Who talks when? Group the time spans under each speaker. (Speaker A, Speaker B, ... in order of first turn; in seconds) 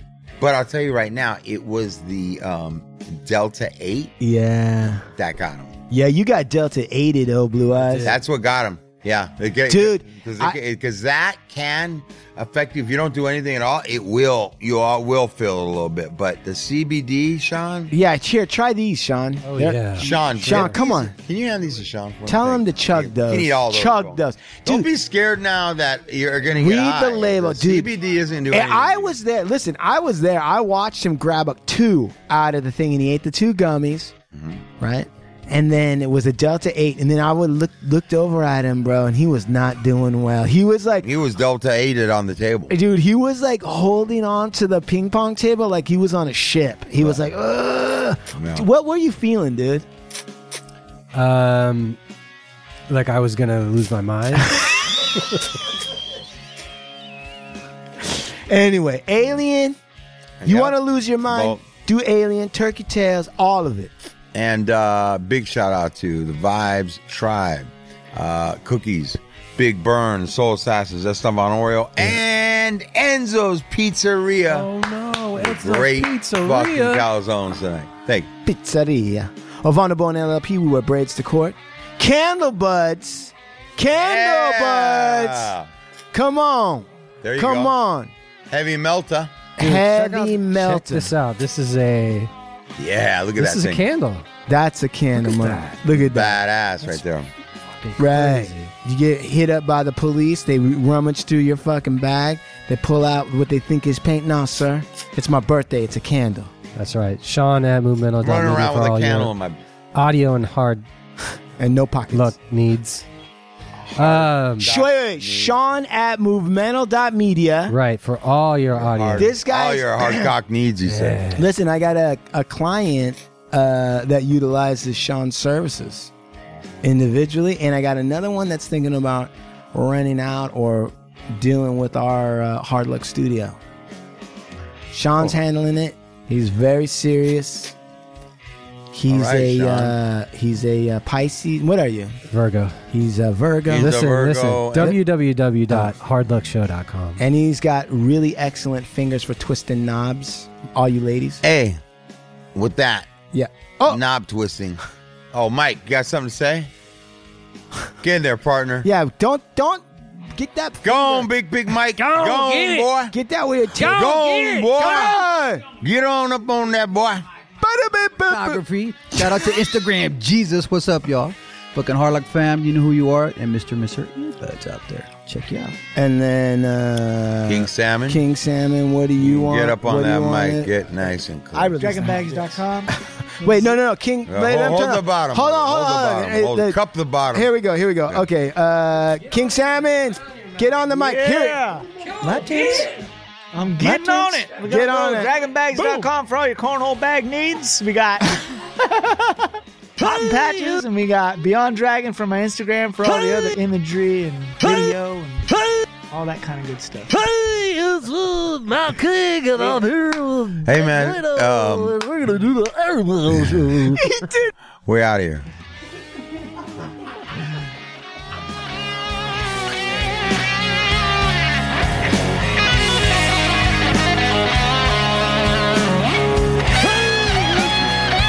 Speaker A: 0.4-4.1, 5.2-5.8, 8.0-17.9, 20.0-29.1, 34.3-34.6, 41.0-42.7, 48.3-48.7, 60.4-61.6, 64.3-74.7, 75.4-78.3, 83.9-85.7, 87.2-87.8, 88.5-89.4, 92.8-93.8, 95.9-97.3, 108.2-109.6, 113.8-115.5, 118.7-121.3, 139.1-139.9, 143.7-145.0, 151.4-151.8, 152.5-153.1, 153.9-154.8, 155.3-156.7, 158.0-158.9, 160.8-163.1, 163.8-167.2, 177.5-178.2, 179.2-181.8, 184.2-187.5, 210.6-212.0, 214.9-215.5
Speaker B: 4.2-5.1, 5.9-8.1, 9.7-10.6, 17.9-21.1, 22.2-24.9, 26.5-27.9, 28.5-34.1, 34.8-41.1, 42.7-49.8, 58.5-59.8, 60.4-63.9, 78.4-85.5, 86.1-88.1, 89.6-91.1, 94.5-96.4, 98.0-106.5, 111.6-112.3, 114.6-117.7, 119.2-120.3, 121.3-126.1, 126.8-133.6, 134.9-137.8, 138.9-142.2, 142.9-144.0, 145.7-145.9, 147.2-151.4, 153.3-154.0, 158.8-161.3, 163.1-164.2, 164.7-165.6, 167.6-168.6, 175.9-180.7, 181.5-182.6, 183.4-186.8, 187.3-192.9, 193.8-196.0, 214.0-214.5
Speaker C: 7.7-8.1, 19.4-20.9, 51.1-52.0, 52.9-55.4, 74.5-77.0, 89.6-92.3, 93.4-94.2, 95.2-95.8, 97.8-98.7, 106.8-109.3, 109.9-110.8, 112.1-113.0, 114.0-114.7, 117.7-119.4, 120.9-121.4, 142.3-142.8, 143.7-147.2, 162.0-162.9, 163.8-165.0
Speaker D: 168.3-175.8
Speaker E: 181.8-183.8, 190.9-192.9, 193.5-205.5, 206.1-207.1
Speaker F: 200.0-200.8, 203.1-203.5, 204.6-204.9, 205.5-205.8, 207.1-214.0, 226.8-227.8